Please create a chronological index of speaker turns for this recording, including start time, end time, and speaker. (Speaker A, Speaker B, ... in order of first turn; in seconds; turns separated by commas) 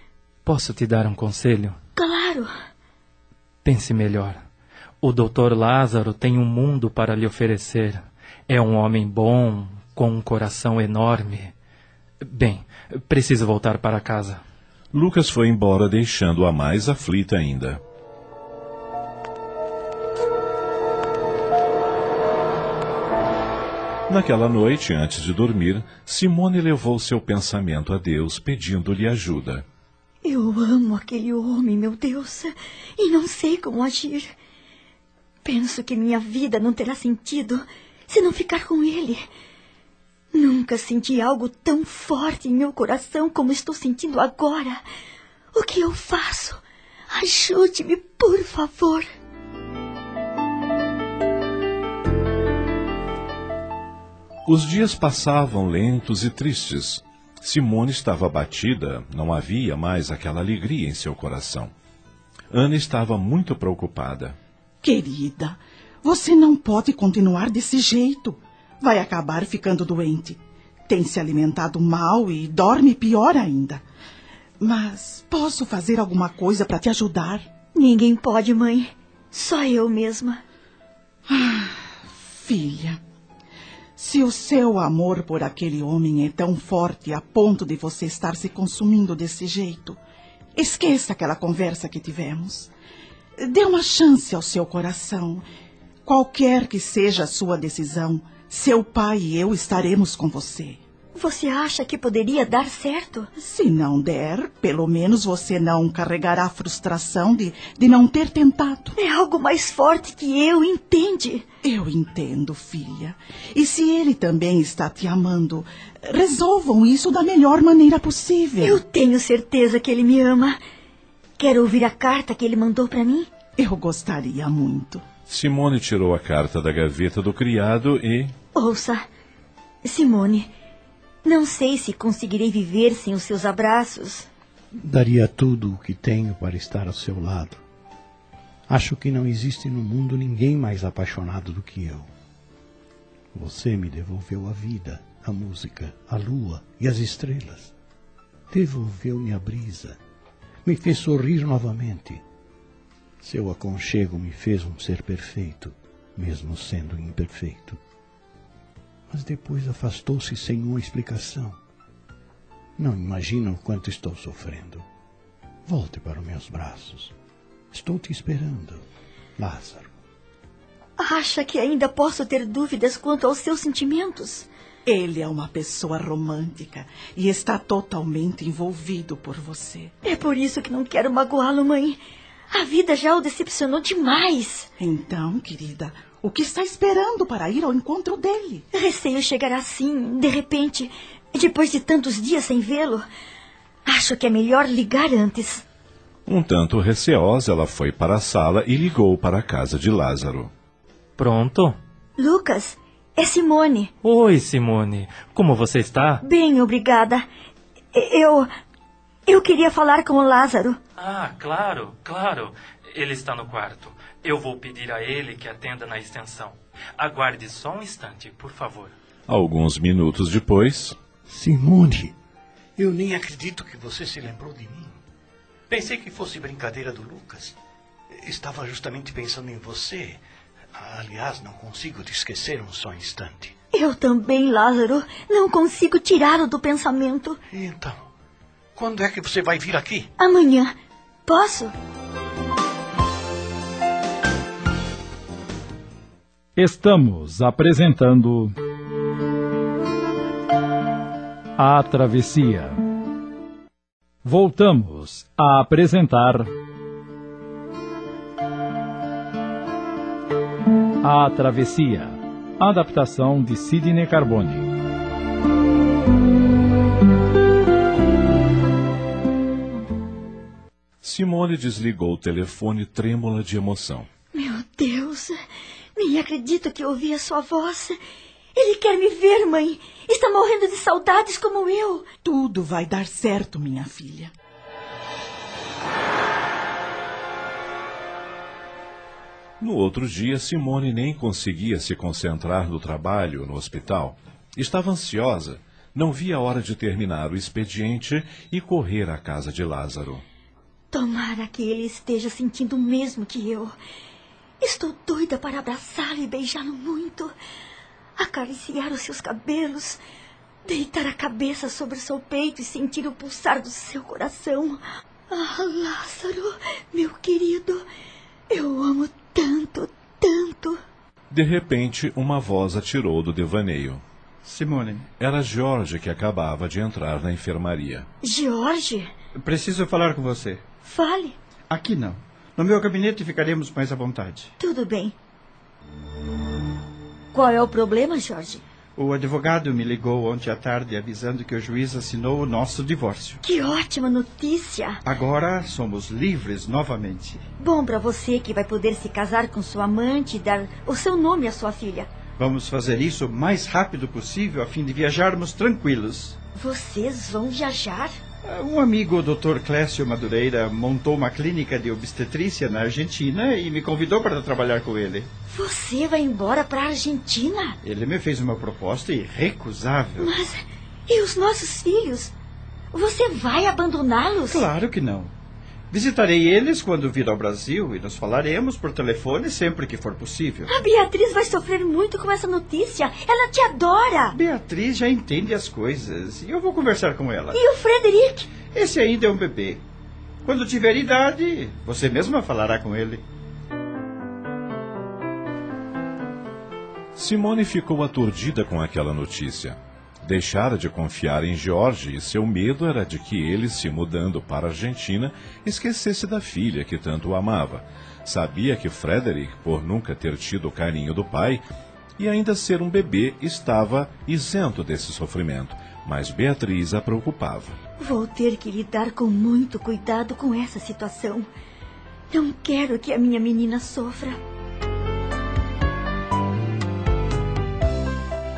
Speaker A: 0.5-1.8, Speaker B: 2.0-2.5, Speaker A: 3.6-4.4, Speaker A: 5.0-11.5, Speaker A: 12.2-14.4, Speaker C: 14.9-17.8, Speaker C: 24.1-29.7, Speaker B: 30.2-34.3, Speaker B: 35.5-39.2, Speaker B: 40.3-44.8, Speaker B: 45.5-49.0, Speaker C: 54.5-61.7, Speaker C: 62.5-64.4, Speaker D: 64.8-73.8, Speaker D: 74.6-77.5, Speaker B: 77.8-80.4, Speaker D: 81.3-83.0, Speaker D: 84.0-90.0, Speaker D: 90.6-92.7, Speaker D: 93.4-95.5, Speaker D: 96.0-100.8, Speaker B: 101.2-103.3, Speaker D: 103.4-109.0, Speaker B: 109.0-111.5, Speaker D: 111.6-118.8, Speaker B: 118.6-120.6, Speaker B: 121.4-123.3, Speaker D: 123.6-125.0, Speaker C: 125.3-128.3, Speaker B: 128.6-129.0, Speaker B: 129.8-130.5, Speaker B: 131.2-134.3, Speaker E: 134.8-137.6, Speaker E: 138.7-142.1, Speaker E: 143.3-147.7, Speaker E: 148.5-150.0, Speaker E: 150.7-152.2, Speaker E: 153.2-157.8, Speaker E: 159.1-161.6, Speaker E: 162.8-164.8, Speaker E: 165.7-167.1, Speaker E: 167.7-168.8, Speaker E: 169.4-169.9, Speaker B: 171.0-174.5, Speaker D: 174.9-179.9, Speaker B: 180.0-182.0, Speaker B: 182.5-184.7, Speaker D: 184.8-188.7, Speaker B: 188.7-193.0, Speaker B: 193.9-195.6, Speaker C: 196.3-200.5, Speaker A: 201.2-201.8, Speaker B: 202.2-203.9, Speaker A: 204.0-206.2, Speaker B: 206.2-207.2, Speaker B: 207.9-208.5, Speaker B: 209.3-210.8, Speaker A: 211.0-218.9, Speaker C: 219.3-221.0, Speaker E: 221.3-222.1, Speaker E: 222.8-225.0, Speaker E: 225.7-227.6, Speaker E: 228.1-230.2, Speaker E: 230.8-233.6, Speaker B: 233.7-237.4, Speaker E: 237.5-238.1, Speaker E: 238.8-240.1, Speaker B: 240.2-240.7, Speaker B: 241.3-241.7, Speaker F: 246.6-248.5, Speaker F: 251.6-252.8, Speaker F: 254.2-256.5, Speaker F: 261.0-264.7, Speaker C: 271.0-274.1, Speaker B: 274.3-275.4, Speaker B: 276.0-278.0, Speaker B: 278.6-282.1, Speaker D: 282.2-284.3, Speaker C: 289.6-300.2, Speaker B: 300.9-303.7, Speaker B: 304.6-307.3, Speaker B: 308.2-310.0, Speaker B: 310.7-314.8, Speaker B: 315.3-317.8, Speaker B: 318.5-320.8, Speaker C: 321.3-324.0, Speaker G: 324.4-325.1, Speaker C: 325.2-328.1, Speaker B: 328.2-329.1, Speaker G: 329.4-330.6, Speaker B: 330.9-331.4, Speaker G: 331.7-334.5, Speaker B: 334.6-335.1, Speaker B: 337.3-338.6, Speaker G: 339.0-343.4, Speaker B: 343.4-345.0, Speaker G: 345.1-347.4, Speaker B: 347.6-352.1, Speaker G: 352.4-356.4, Speaker B: 356.6-358.1, Speaker G: 358.4-365.3, Speaker B: 365.5-367.8, Speaker G: 367.8-370.3, Speaker B: 370.2-372.3, Speaker B: 372.9-374.7, Speaker G: 374.5-375.3, Speaker G: 375.9-380.7, Speaker B: 380.7-384.4, Speaker G: 384.3-387.6, Speaker B: 387.5-388.5, Speaker G: 388.6-389.8, Speaker G: 390.4-393.2, Speaker C: 397.1-411.6, Speaker C: 412.2-417.8, Speaker B: 418.0-421.5, Speaker B: 422.3-424.4